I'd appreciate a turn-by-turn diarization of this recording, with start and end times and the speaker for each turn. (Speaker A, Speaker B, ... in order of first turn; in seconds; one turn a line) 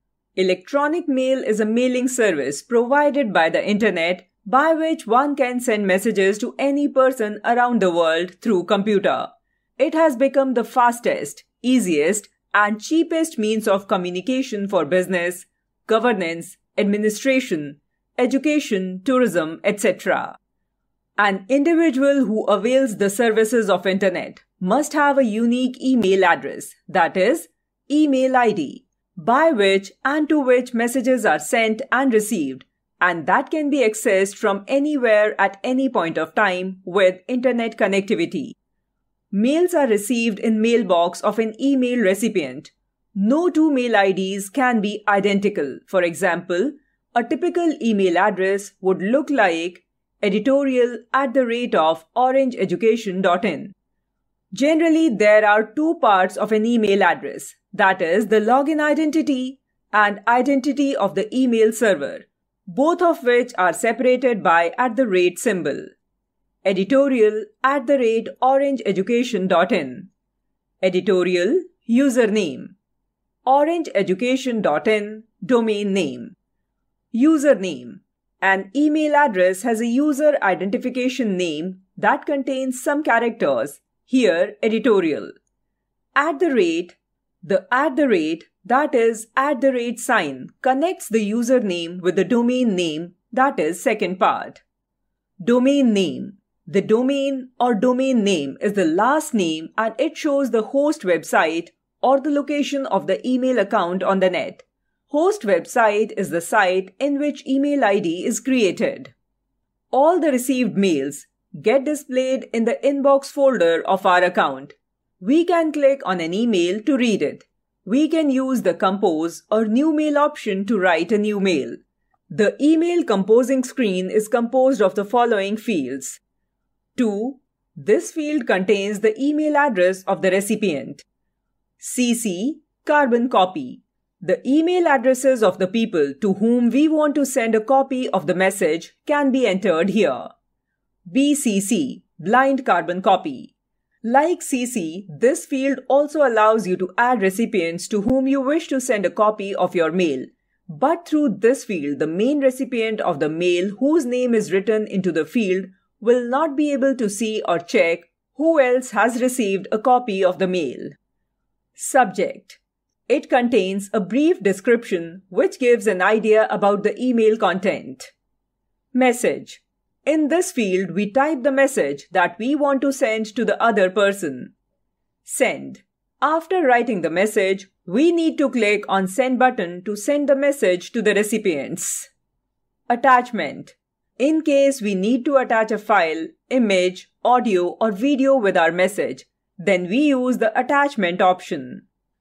Speaker A: 0.3-20.4
Speaker A: 21.2-38.6
Speaker A: 39.3-53.7
Speaker A: 54.5-65.9
Speaker A: 66.6-70.1
Speaker A: 70.8-72.8
Speaker A: 73.5-76.3
Speaker A: 77.1-85.3
Speaker A: 86.1-94.6
Speaker A: 95.4-109.1
Speaker A: 109.9-121.8
Speaker A: 122.3-126.2
Speaker A: 127.0-131.0
Speaker A: 131.8-140.3
Speaker A: 141.1-143.5
Speaker A: 144.0-160.9
Speaker A: 161.8-168.1
Speaker A: 168.9-174.5
Speaker A: 175.2-182.1
Speaker A: 182.9-191.8